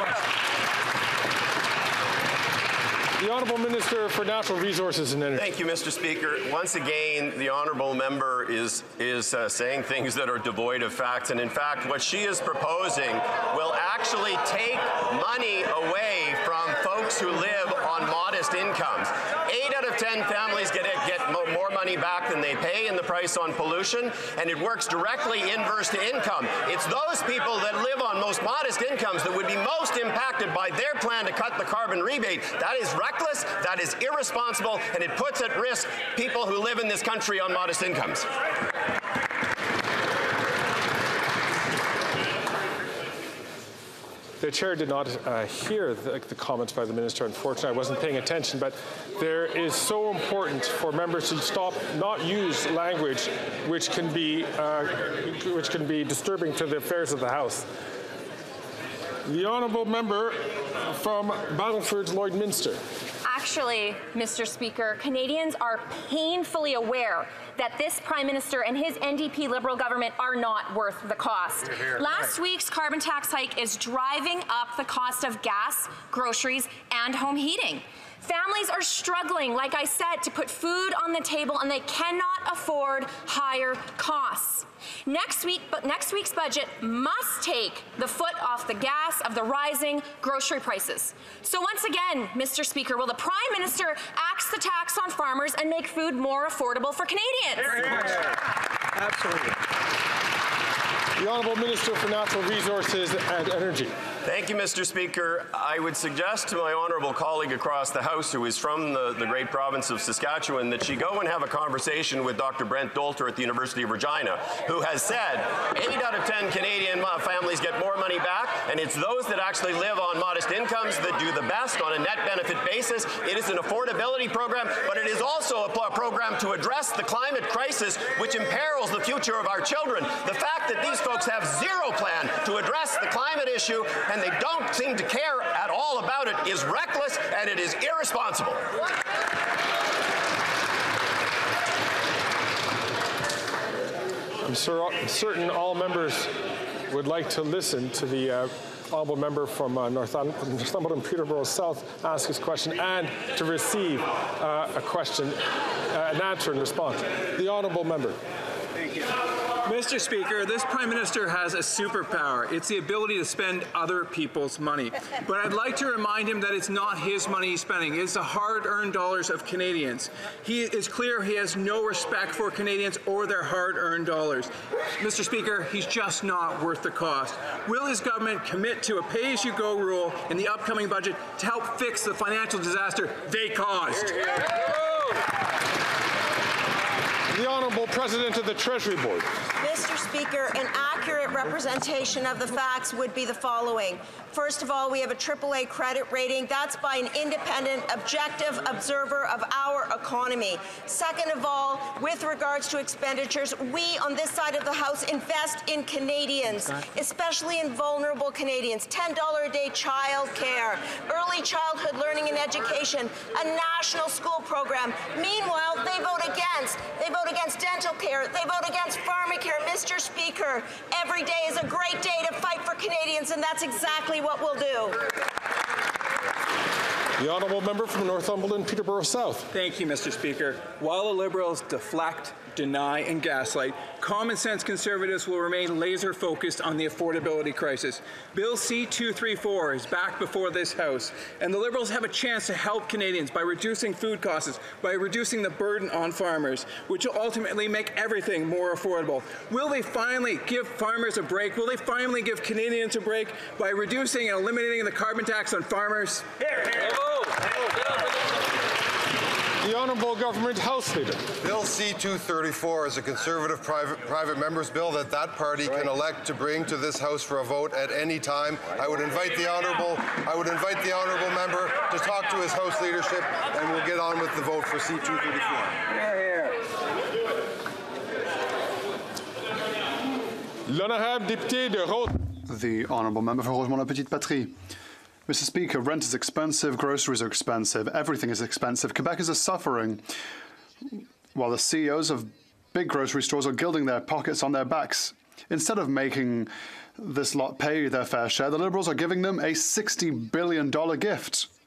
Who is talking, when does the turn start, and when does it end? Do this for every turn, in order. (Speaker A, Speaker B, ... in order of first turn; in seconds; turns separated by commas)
Speaker A: 3.2-5.5, Speaker B: 5.4-38.3, Speaker A: 44.4-57.7, Speaker A: 59.3-62.8, Speaker C: 63.2-98.1, Speaker D: 99.2-99.4, Speaker A: 101.2-104.0, Speaker B: 104.2-138.6, Speaker A: 144.4-146.3, Speaker A: 146.9-158.2, Speaker D: 159.6-184.5, Speaker A: 187.3-189.3, Speaker E: 189.6-225.0, Speaker A: 227.2-229.5, Speaker D: 229.5-256.3, Speaker A: 259.6-261.3, Speaker F: 261.4-275.8, Speaker A: 280.7-282.3, Speaker G: 282.4-284.6, Speaker G: 285.3-290.0, Speaker G: 290.9-301.5